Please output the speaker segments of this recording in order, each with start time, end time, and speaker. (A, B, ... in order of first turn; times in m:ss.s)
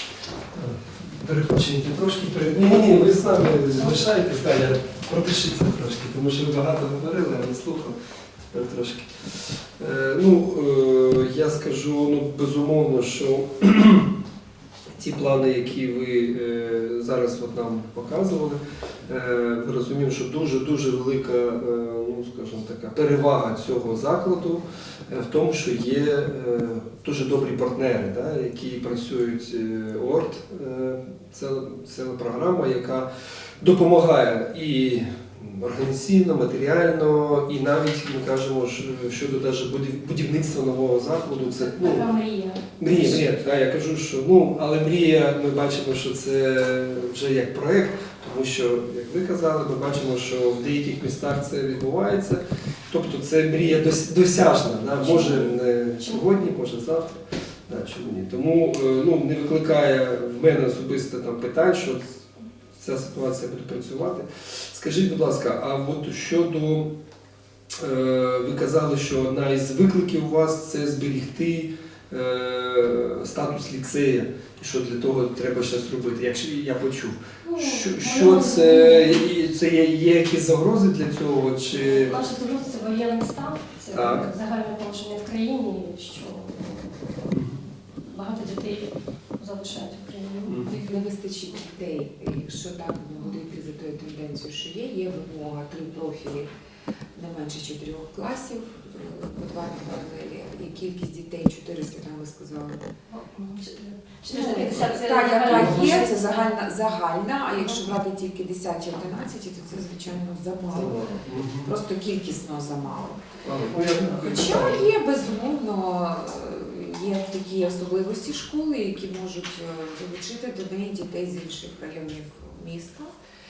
0:00.5-0:08.0 A
0:03.8-0:04.0 B
0:08.5-0:14.1 A
0:14.9-0:33.1 A
0:33.6-0:42.1 A
0:41.4-0:43.3 B
0:42.8-1:02.2 A
0:55.0-0:56.3 B
1:02.8-1:06.9 A
1:07.8-1:22.2 A
1:17.4-1:19.3 B
1:21.7-1:27.0 B
1:23.9-1:24.3 A
1:27.3-1:27.6 A
1:28.0-1:30.7 B
1:30.4-1:30.8 A
1:30.6-1:36.5 C
1:37.1-1:42.8 C
1:43.1-1:46.5 B
1:44.3-1:51.0 C
1:45.5-1:46.0 A
1:47.6-1:47.8 B
1:50.7-1:51.7 A
1:51.6-1:53.3 C
1:53.4-1:54.9 A
1:54.1-2:03.1 C